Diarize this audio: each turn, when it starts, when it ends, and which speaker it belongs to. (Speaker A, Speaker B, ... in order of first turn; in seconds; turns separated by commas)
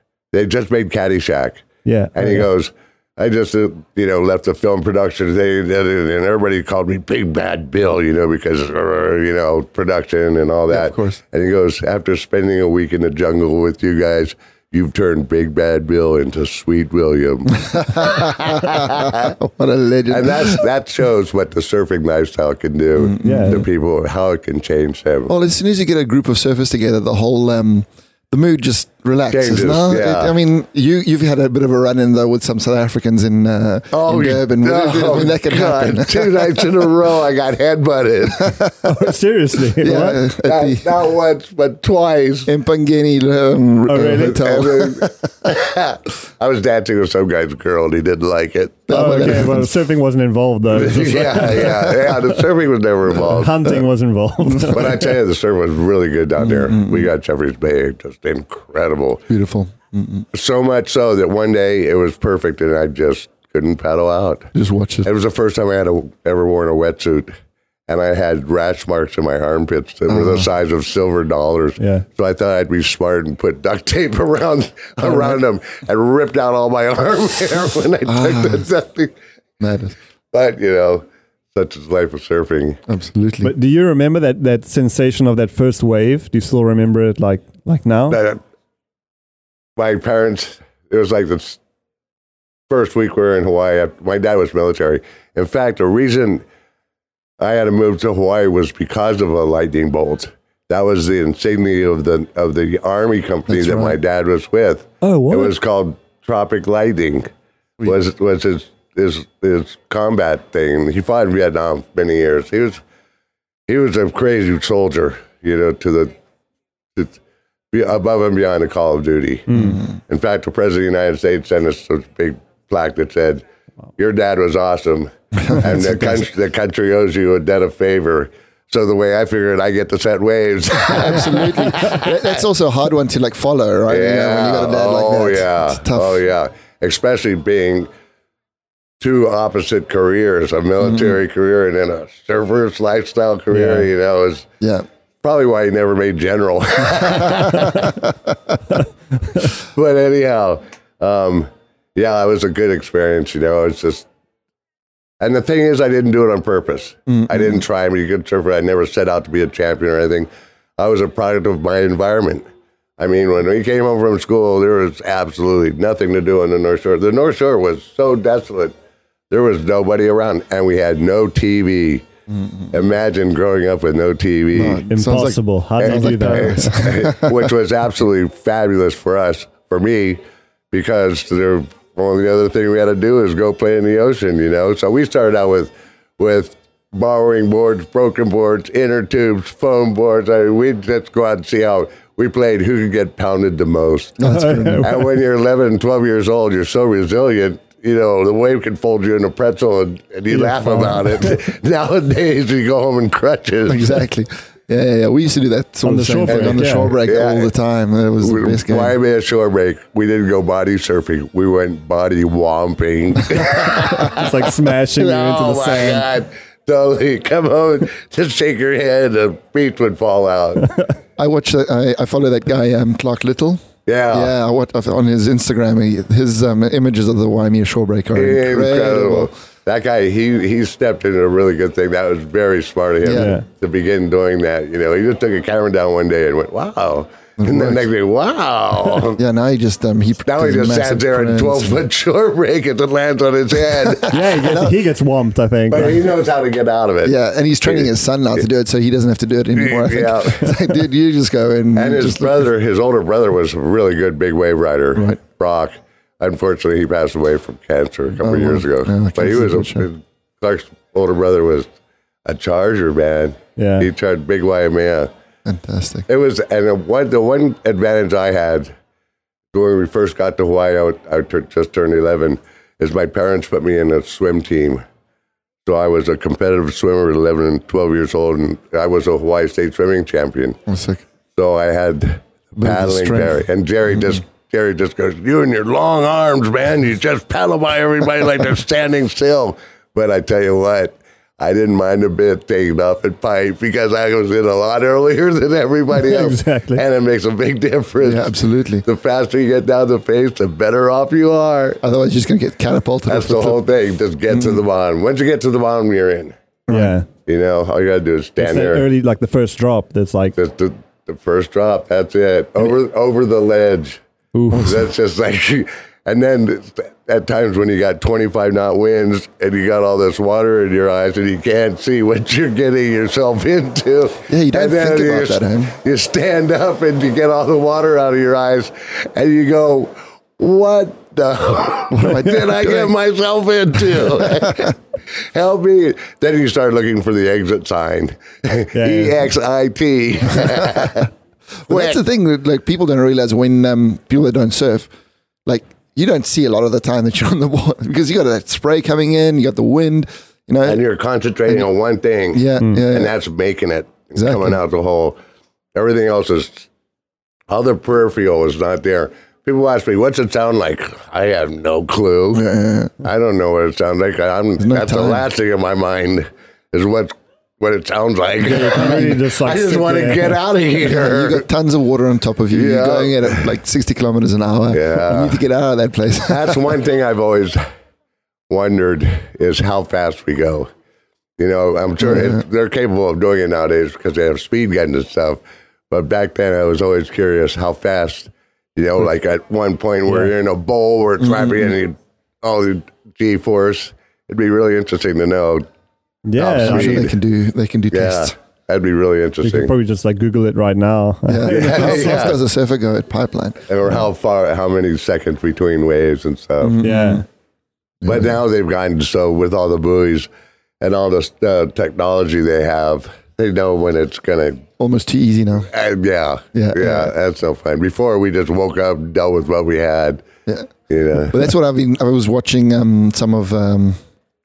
Speaker A: 0.3-18.8, Speaker B: 1.8-2.5, Speaker C: 10.7-11.2, Speaker C: 17.5-20.6, Speaker A: 20.1-25.3, Speaker C: 22.9-23.7, Speaker B: 23.2-23.6, Speaker C: 25.3-36.9, Speaker A: 29.3-30.4, Speaker A: 33.9-38.6, Speaker B: 38.8-40.2, Speaker C: 39.8-40.9, Speaker A: 40.4-42.5, Speaker C: 42.5-45.3, Speaker B: 43.9-44.5, Speaker A: 44.1-48.9, Speaker C: 48.9-49.8, Speaker B: 48.9-52.4, Speaker A: 50.7-53.7, Speaker C: 51.6-52.1, Speaker B: 53.2-55.1, Speaker A: 54.7-59.2, Speaker C: 56.4-57.1, Speaker C: 59.3-60.3, Speaker A: 60.3-64.5, Speaker C: 64.5-65.1, Speaker A: 65.0-67.3, Speaker A: 67.9-79.1, Speaker C: 70.1-70.5, Speaker B: 71.8-72.0, Speaker C: 75.0-75.4, Speaker C: 78.1-78.7, Speaker C: 79.6-79.9, Speaker A: 80.3-82.8, Speaker C: 82.9-83.5, Speaker B: 83.4-88.2, Speaker A: 88.1-88.4, Speaker A: 89.8-91.6, Speaker A: 92.7-96.4, Speaker A: 97.4-107.3, Speaker C: 103.5-104.0, Speaker B: 105.0-105.5, Speaker A: 107.8-112.8, Speaker A: 113.7-116.1, Speaker A: 117.7-119.5, Speaker B: 119.5-119.8, Speaker C: 119.5-120.0, Speaker A: 120.1-123.4, Speaker A: 124.0-132.2, Speaker C: 125.4-126.3, Speaker C: 130.8-136.2, Speaker A: 133.9-137.9, Speaker A: 139.0-144.5, Speaker C: 140.8-141.2, Speaker B: 143.5-143.9, Speaker C: 144.6-144.8, Speaker A: 145.2-147.9, Speaker C: 147.5-148.1, Speaker A: 149.5-154.1, Speaker A: 155.2-162.4, Speaker C: 157.1-157.6, Speaker A: 163.0-168.7, Speaker A: 169.3-172.0, Speaker C: 172.3-172.7, Speaker A: 172.7-174.8, Speaker C: 174.5-177.3, Speaker B: 174.8-176.9, Speaker A: 175.8-180.2, Speaker A: 180.7-194.2, Speaker C: 194.2-194.9, Speaker B: 194.2-195.1, Speaker A: 194.8-204.0, Speaker B: 200.3-201.4, Speaker C: 203.7-209.0, Speaker B: 205.8-206.9, Speaker A: 206.3-207.5, Speaker A: 208.2-214.3, Speaker B: 213.7-216.1, Speaker A: 214.9-220.6, Speaker C: 221.2-229.3, Speaker A: 223.8-224.3, Speaker A: 228.1-239.2, Speaker C: 233.0-233.4, Speaker B: 233.1-233.4, Speaker C: 237.4-237.9, Speaker C: 239.1-241.8, Speaker A: 240.2-244.2, Speaker C: 243.8-244.7, Speaker B: 244.1-246.0, Speaker A: 245.7-248.4, Speaker C: 247.0-252.5, Speaker A: 249.5-250.5, Speaker A: 251.7-261.7, Speaker C: 254.9-255.2, Speaker C: 258.2-259.9, Speaker A: 262.2-265.1, Speaker B: 263.6-263.9, Speaker C: 265.4-266.1, Speaker A: 266.1-268.7, Speaker A: 269.5-274.8, Speaker A: 275.6-280.6, Speaker C: 280.7-281.0, Speaker A: 281.4-301.8, Speaker C: 282.6-283.4, Speaker B: 295.9-296.8, Speaker C: 298.0-298.8, Speaker C: 301.8-303.6, Speaker A: 303.1-306.3, Speaker C: 304.3-304.6, Speaker C: 306.7-307.0, Speaker B: 306.7-307.1, Speaker A: 307.2-308.9, Speaker B: 308.4-310.4, Speaker A: 310.3-314.0, Speaker B: 314.3-314.8, Speaker A: 314.6-334.7, Speaker C: 324.3-325.7, Speaker C: 331.9-332.9, Speaker C: 333.9-334.6, Speaker A: 335.3-341.1, Speaker B: 338.7-339.2, Speaker C: 341.6-344.9, Speaker A: 341.7-342.0, Speaker C: 345.4-350.9, Speaker A: 350.6-355.2, Speaker C: 352.3-353.1, Speaker C: 354.1-354.6, Speaker A: 355.7-356.7, Speaker A: 357.5-362.4, Speaker C: 362.3-362.9, Speaker A: 363.0-371.4, Speaker C: 364.6-365.3, Speaker B: 368.4-370.4, Speaker C: 368.8-369.1, Speaker C: 370.8-376.7, Speaker A: 372.5-373.5, Speaker A: 374.7-375.4, Speaker A: 376.3-377.6, Speaker A: 378.5-380.7, Speaker A: 381.4-395.6, Speaker C: 382.0-382.4, Speaker B: 390.1-390.3, Speaker C: 391.2-391.7, Speaker B: 396.2-397.1, Speaker A: 396.4-397.2, Speaker C: 396.6-398.3, Speaker A: 397.9-399.7, Speaker B: 399.4-402.3, Speaker C: 401.3-404.0, Speaker A: 401.4-402.4, Speaker A: 403.7-406.8, Speaker C: 406.6-407.2, Speaker B: 406.8-407.2, Speaker C: 408.0-408.4, Speaker A: 408.0-410.3, Speaker A: 410.8-414.6, Speaker C: 414.8-415.7, Speaker A: 415.7-420.2, Speaker C: 416.5-417.1, Speaker A: 420.9-421.5, Speaker C: 421.3-424.0